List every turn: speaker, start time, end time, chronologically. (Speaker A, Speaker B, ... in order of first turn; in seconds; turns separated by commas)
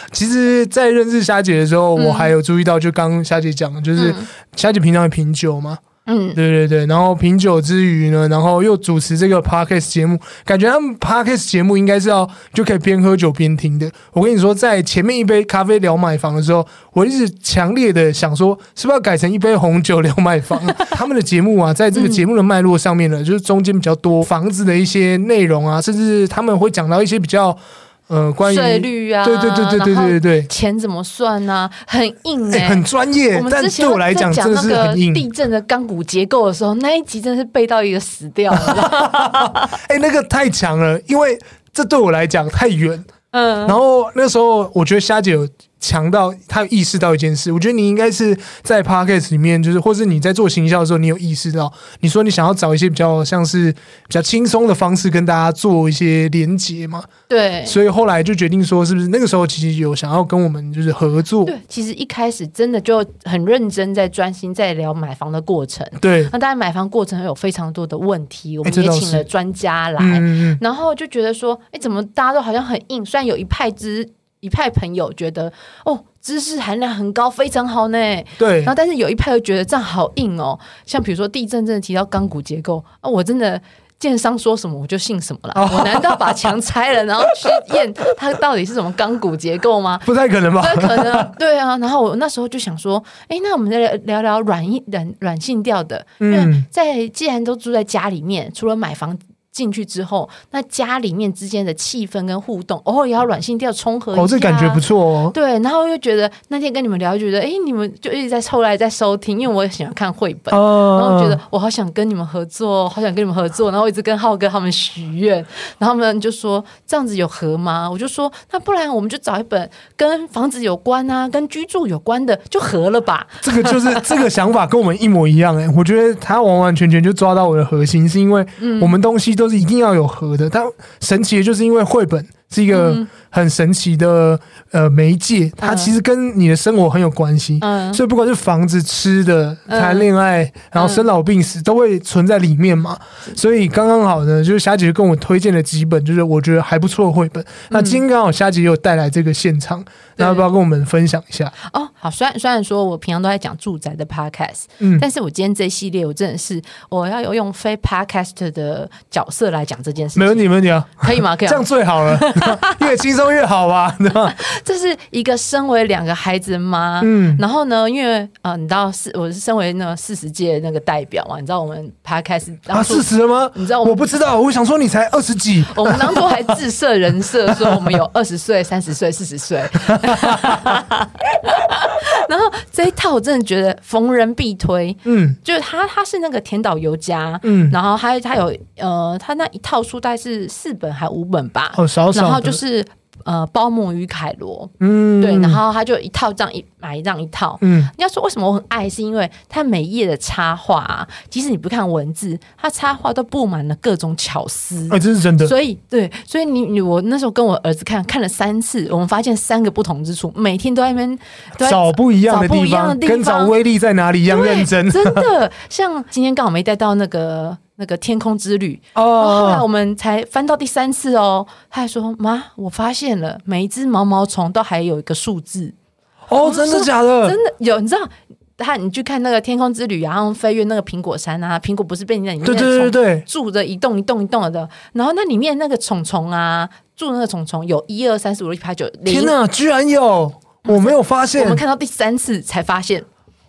Speaker A: 0.1-5.8, Speaker B: 2.0-2.3, Speaker B: 4.0-4.3, Speaker B: 6.1-6.4, Speaker A: 6.3-30.5, Speaker B: 21.9-22.2, Speaker B: 28.4-39.7, Speaker A: 32.5-35.3, Speaker A: 38.5-43.1, Speaker B: 43.3-43.8, Speaker A: 43.6-57.1, Speaker B: 57.3-57.8, Speaker A: 57.6-61.5, Speaker B: 61.5-124.2, Speaker A: 66.0-66.3, Speaker A: 68.6-69.3, Speaker A: 70.0-70.6, Speaker A: 78.4-78.7, Speaker A: 85.5-86.4, Speaker A: 90.0-91.3, Speaker A: 96.2-96.7, Speaker A: 104.1-105.3, Speaker A: 110.5-111.4, Speaker A: 123.4-151.5, Speaker B: 128.6-129.0, Speaker B: 132.7-133.1, Speaker B: 135.6-135.9, Speaker B: 137.6-138.0, Speaker B: 139.7-140.1, Speaker B: 140.8-141.1, Speaker B: 147.7-148.0, Speaker B: 150.2-150.5, Speaker B: 151.7-162.8, Speaker A: 154.8-155.1, Speaker A: 160.2-164.4, Speaker B: 164.3-174.0, Speaker A: 167.0-167.4, Speaker A: 172.7-176.4, Speaker B: 175.7-213.5, Speaker A: 177.5-177.9, Speaker A: 179.9-180.7, Speaker A: 185.1-185.4, Speaker A: 187.4-187.8, Speaker A: 191.7-192.6, Speaker A: 194.8-195.6, Speaker A: 197.6-197.9, Speaker A: 204.9-205.5, Speaker A: 211.6-215.3, Speaker B: 214.3-225.8, Speaker A: 218.9-219.7, Speaker A: 226.3-227.4, Speaker B: 226.4-239.3, Speaker A: 232.4-233.2, Speaker A: 239.1-241.6, Speaker B: 240.7-243.1